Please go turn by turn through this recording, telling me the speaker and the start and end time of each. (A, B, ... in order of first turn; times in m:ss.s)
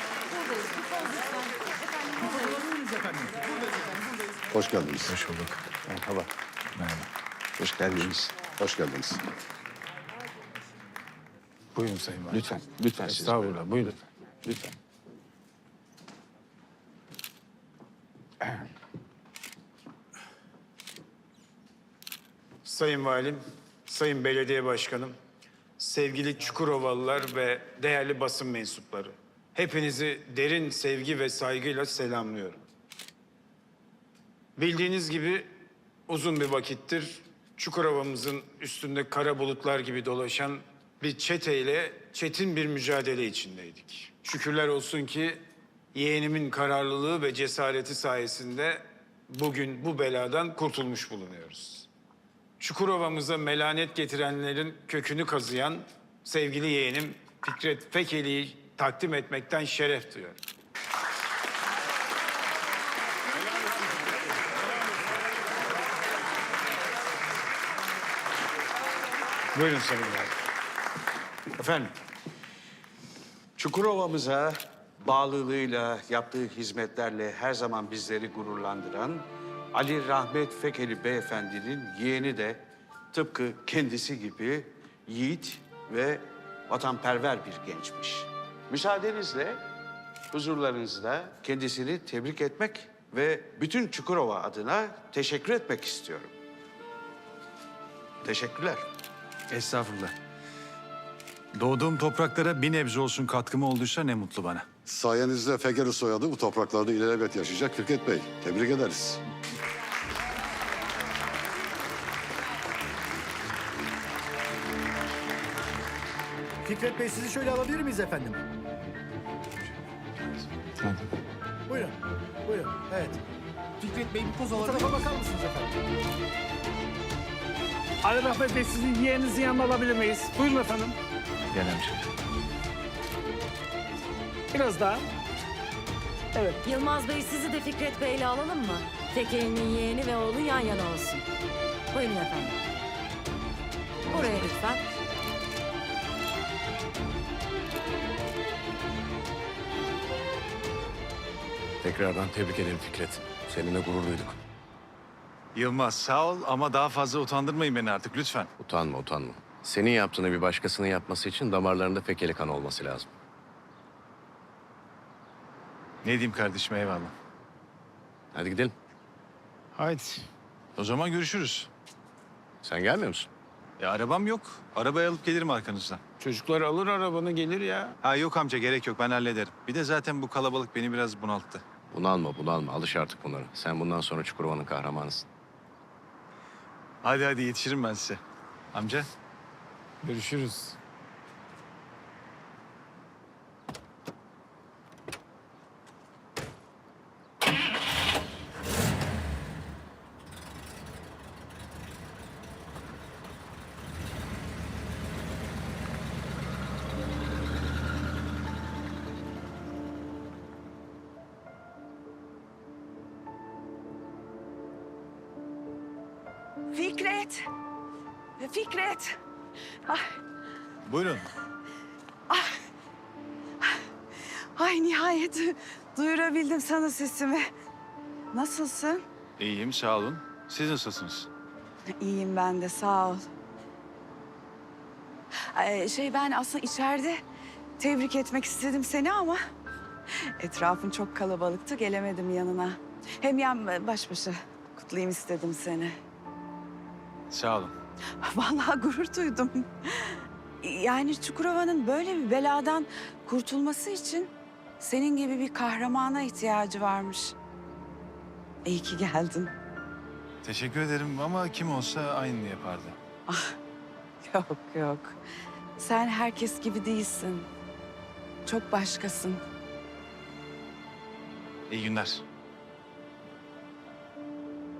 0:00.6-0:01.2 A
0:02.2-0:03.4 B
0:04.5-0:05.1 C
0:05.1-0:05.8 D
0:06.8-0:07.1 D
0:07.6-0:08.3 E
0:08.6-0:09.2 C
0:11.8-0:12.4 D
0:12.4-0:13.5 E
0:13.2-0:13.8 D
0:22.6-0:25.2 F
0:25.8-0:32.6 F
0:34.6-0:35.5 F
0:36.1-0:45.4 F
0:45.9-0:51.9 F
0:52.6-1:00.4 F
1:09.5-1:10.4 F
1:11.6-1:11.9 E
1:13.6-1:29.6 E
1:30.3-1:36.3 E
1:38.2-1:38.9 E
1:39.5-1:40.1 E
1:41.6-1:44.6 D
1:44.9-1:49.2 C
1:56.6-1:58.4 B
2:01.7-2:02.0 B
2:02.5-2:03.2 B
2:03.8-2:05.7 B
2:08.0-2:11.0 G
2:11.5-2:12.0 D
2:14.5-2:15.0 G
2:16.6-2:21.2 A
2:21.9-2:22.6 A
2:24.1-2:24.8 A
2:31.8-2:34.4 H
2:35.6-2:38.5 D
2:38.6-2:43.1 H
2:46.0-2:47.1 D
2:48.3-2:48.8 H
2:49.8-2:50.3 F
2:50.8-2:51.7 D
2:52.6-2:53.3 H
2:53.8-2:56.0 D
2:56.2-2:58.0 F
2:58.0-3:01.6 D
3:01.9-3:05.3 H
3:07.0-3:08.2 D
3:08.7-3:09.1 D
3:10.0-3:10.8 F
3:36.7-3:37.4 I
3:38.4-3:39.2 I
3:39.9-3:40.2 I
3:40.9-3:41.3 D
3:42.3-3:42.5 I
3:44.6-3:47.5 I
3:48.3-3:49.0 I
3:49.4-3:51.3 D
3:52.0-3:53.2 I
3:55.5-3:57.2 I
3:57.8-3:59.4 I
4:00.2-4:06.0 I
4:07.3-4:07.7 D
4:08.2-4:17.4 I
4:18.6-4:19.5 I
4:20.4-4:23.0 D
4:23.3-4:23.6 I
4:24.2-4:25.2 I
4:25.8-4:27.5 I
4:28.5-4:29.4 I
4:31.7-4:32.2 D